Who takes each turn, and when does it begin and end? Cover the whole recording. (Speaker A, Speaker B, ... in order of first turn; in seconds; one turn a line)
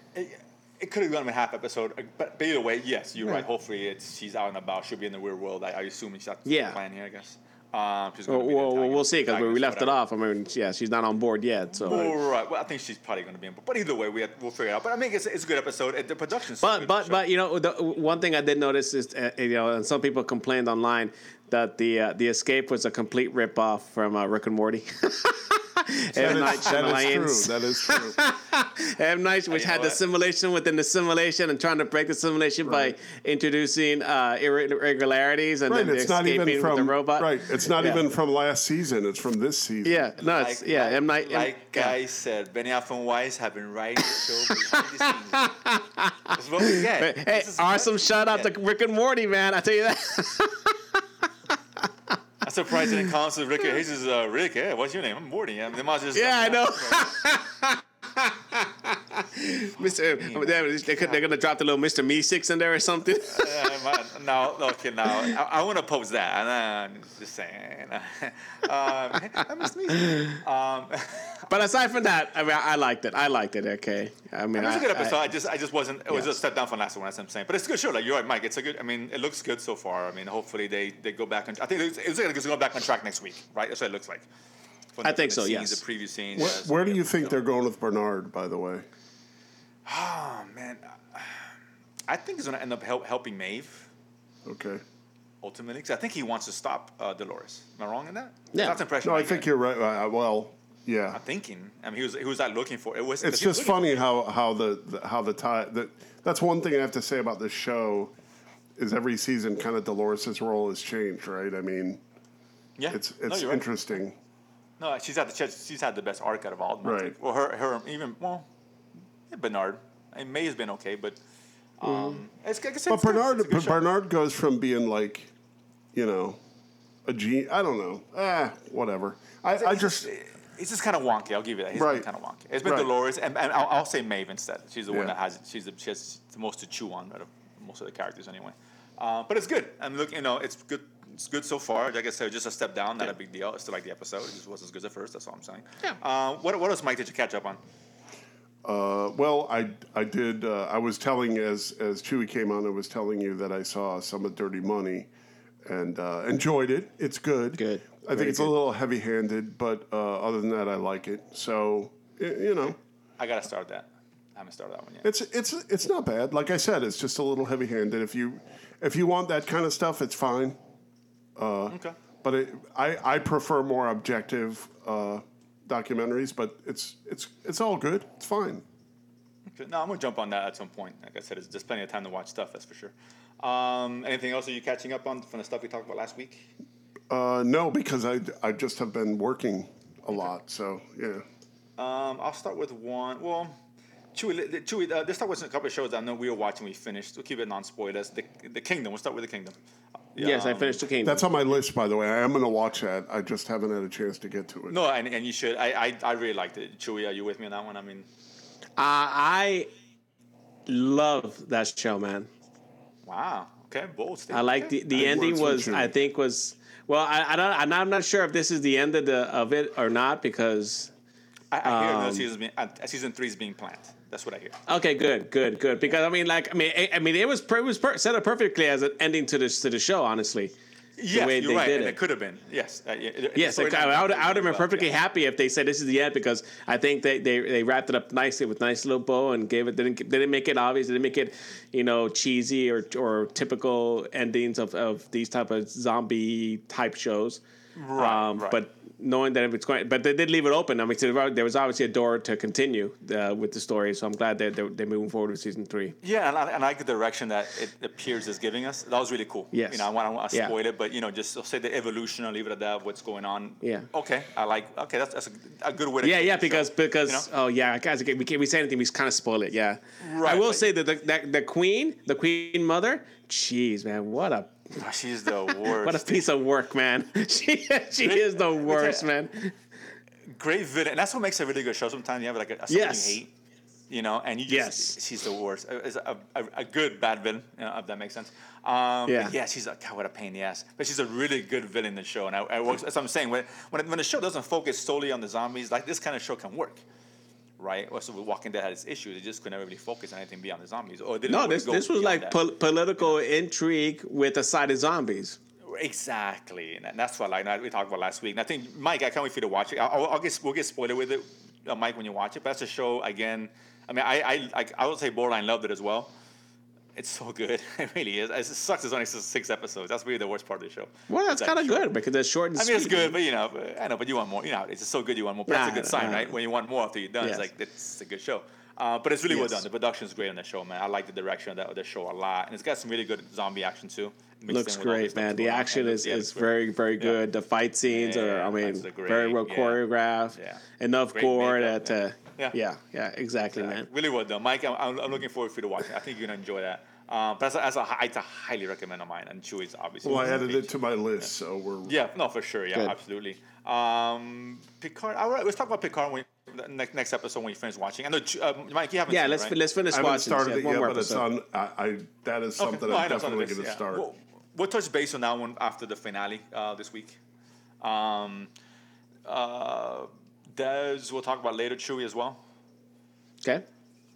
Speaker A: 0.1-9.9
Speaker B: 6.5-6.8
Speaker B: 8.3-12.1
Speaker A: 11.8-17.2
Speaker B: 16.6-38.0
Speaker C: 26.1-28.2
Speaker A: 29.5-30.0
Speaker C: 32.6-32.9
Speaker C: 35.7-40.1
Speaker B: 39.8-42.0
Speaker A: 40.2-45.5
Speaker B: 44.7-50.8
Speaker A: 46.3-48.5
Speaker A: 52.4-57.2
Speaker B: 56.1-63.8
Speaker A: 59.8-61.2
Speaker A: 63.3-71.5
Speaker B: 71.5-75.2
Speaker A: 74.5-84.2
Speaker B: 76.1-76.4
Speaker A: 84.9-87.3
Speaker B: 85.0-85.8
Speaker C: 86.3-88.8
Speaker A: 89.8-91.5
Speaker A: 92.1-93.9
Speaker C: 94.4-94.8
Speaker A: 95.4-99.5
Speaker B: 98.5-98.8
Speaker C: 99.0-101.2
Speaker A: 101.1-103.9
Speaker C: 103.2-108.1
Speaker C: 108.8-112.0
Speaker A: 112.8-113.7
Speaker C: 112.9-114.2
Speaker A: 114.8-118.5
Speaker C: 116.8-117.1
Speaker A: 119.3-121.2
Speaker A: 121.8-123.8
Speaker B: 121.8-122.2
Speaker C: 122.9-125.3
Speaker C: 125.9-126.4
Speaker C: 127.0-130.1
Speaker A: 129.5-147.6
Speaker C: 131.7-132.1
Speaker C: 132.6-132.9
Speaker C: 148.6-155.1
Speaker C: 155.6-162.8
Speaker B: 157.6-158.5
Speaker A: 163.2-165.1
Speaker C: 165.0-170.6
Speaker C: 171.3-178.6
Speaker A: 171.7-172.0
Speaker A: 179.5-186.5
Speaker C: 187.1-191.2
Speaker A: 191.8-193.5
Speaker A: 194.1-199.6
Speaker A: 200.1-200.8
Speaker B: 200.2-201.2
Speaker C: 201.0-204.8
Speaker A: 204.7-208.1
Speaker B: 208.8-209.7
Speaker B: 210.7-212.3
Speaker A: 213.0-215.1
Speaker B: 214.3-220.9
Speaker C: 214.9-215.9
Speaker A: 221.5-224.6
Speaker B: 221.6-222.3
Speaker B: 224.7-230.5
Speaker A: 231.0-234.9
Speaker B: 231.1-232.0
Speaker B: 233.3-247.4
Speaker A: 247.8-248.6
Speaker B: 247.9-255.9
Speaker A: 256.0-267.3
Speaker B: 259.5-260.5
Speaker B: 263.6-263.9
Speaker B: 266.0-274.7
Speaker A: 270.0-270.7
Speaker A: 274.7-276.3
Speaker B: 275.3-279.5
Speaker A: 278.0-279.1
Speaker A: 280.2-283.3
Speaker B: 282.7-283.2
Speaker A: 283.9-296.8
Speaker B: 284.5-285.0
Speaker B: 289.1-289.3
Speaker A: 297.6-302.4
Speaker B: 301.3-305.4
Speaker A: 305.6-316.1
Speaker A: 316.9-321.9
Speaker B: 321.1-323.1
Speaker A: 322.6-337.2
Speaker B: 325.5-326.3
Speaker B: 327.2-327.4
Speaker B: 329.3-329.6
Speaker B: 334.5-343.9
Speaker A: 337.9-339.8
Speaker A: 340.3-340.6
Speaker A: 341.1-342.6
Speaker A: 343.5-350.7
Speaker C: 350.0-351.9
Speaker A: 351.8-359.6
Speaker B: 359.1-361.2
Speaker C: 359.9-364.1
Speaker A: 362.6-367.2
Speaker A: 367.8-368.5
Speaker A: 369.2-372.4